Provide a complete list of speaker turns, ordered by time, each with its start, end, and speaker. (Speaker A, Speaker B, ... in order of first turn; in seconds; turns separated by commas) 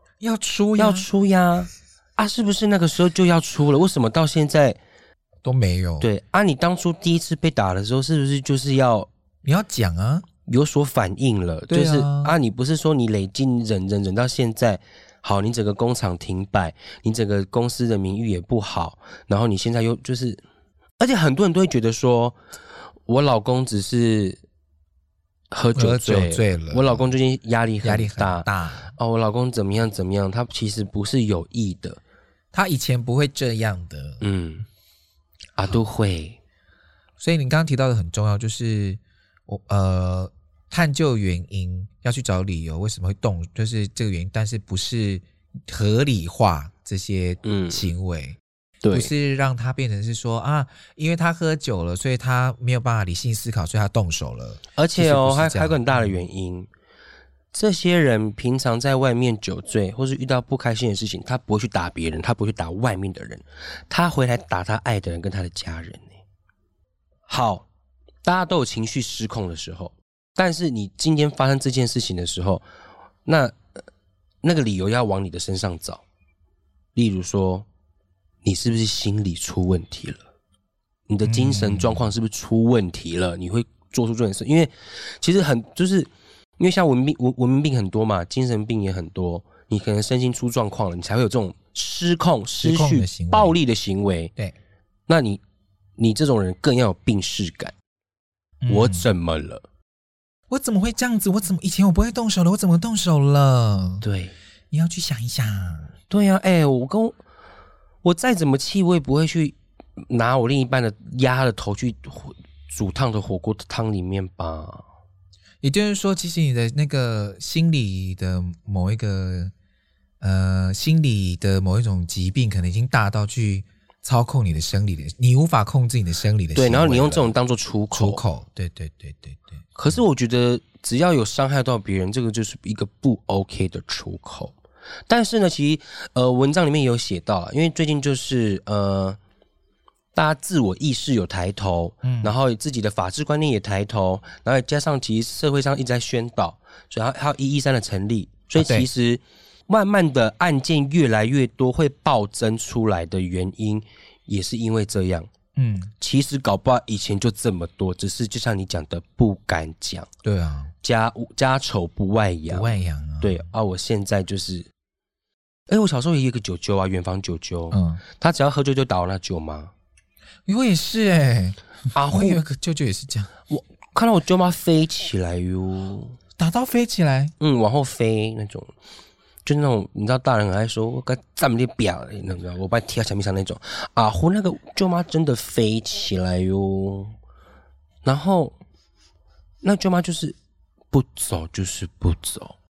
Speaker A: 0.2-1.1, Speaker B: 0.8-4.8, Speaker A: 5.4-6.1, Speaker B: 6.0-9.1, Speaker A: 9.4-10.2, Speaker B: 10.4-20.4, Speaker A: 11.7-12.3, Speaker B: 21.0-22.4, Speaker B: 23.1-24.4, Speaker B: 25.5-32.0, Speaker A: 25.7-27.1, Speaker A: 27.8-28.9, Speaker A: 32.5-34.2, Speaker B: 34.2-34.6, Speaker B: 35.6-36.4, Speaker A: 37.2-48.4, Speaker B: 47.4-47.9, Speaker B: 48.8-49.1, Speaker A: 48.9-56.2, Speaker B: 54.8-56.7, Speaker B: 57.5-66.2, Speaker B: 67.3-67.7, Speaker B: 68.2-72.6, Speaker B: 73.2-73.6, Speaker B: 74.4-76.0, Speaker B: 77.0-77.7, Speaker B: 78.4-80.2, Speaker B: 81.1-94.3, Speaker A: 81.2-82.1, Speaker A: 92.6-93.6, Speaker B: 95.1-95.4, Speaker B: 96.0-97.7, Speaker A: 98.6-99.0, Speaker B: 98.7-99.6, Speaker A: 100.5-104.0, Speaker B: 104.0-104.3, Speaker A: 104.7-105.9, Speaker B: 106.1-107.2, Speaker B: 108.0-114.8, Speaker A: 115.6-119.5, Speaker A: 120.2-127.3, Speaker B: 126.5-128.2, Speaker A: 127.9-130.0, Speaker B: 129.7-134.5, Speaker B: 135.1-139.2, Speaker B: 140.1-155.3, Speaker A: 142.0-142.3, Speaker A: 148.6-148.9, Speaker A: 155.6-155.9, Speaker B: 156.0-160.1, Speaker A: 160.2-160.7, Speaker B: 160.8-164.7, Speaker A: 162.5-163.4, Speaker B: 165.7-169.7, Speaker A: 167.7-168.0, Speaker A: 170.4-173.3, Speaker B: 171.9-172.4, Speaker B: 173.5-176.2, Speaker A: 176.4-177.3, Speaker B: 177.4-178.7, Speaker B: 179.4-187.1, Speaker B: 188.0-188.6, Speaker B: 189.6-190.4, Speaker B: 190.9-192.6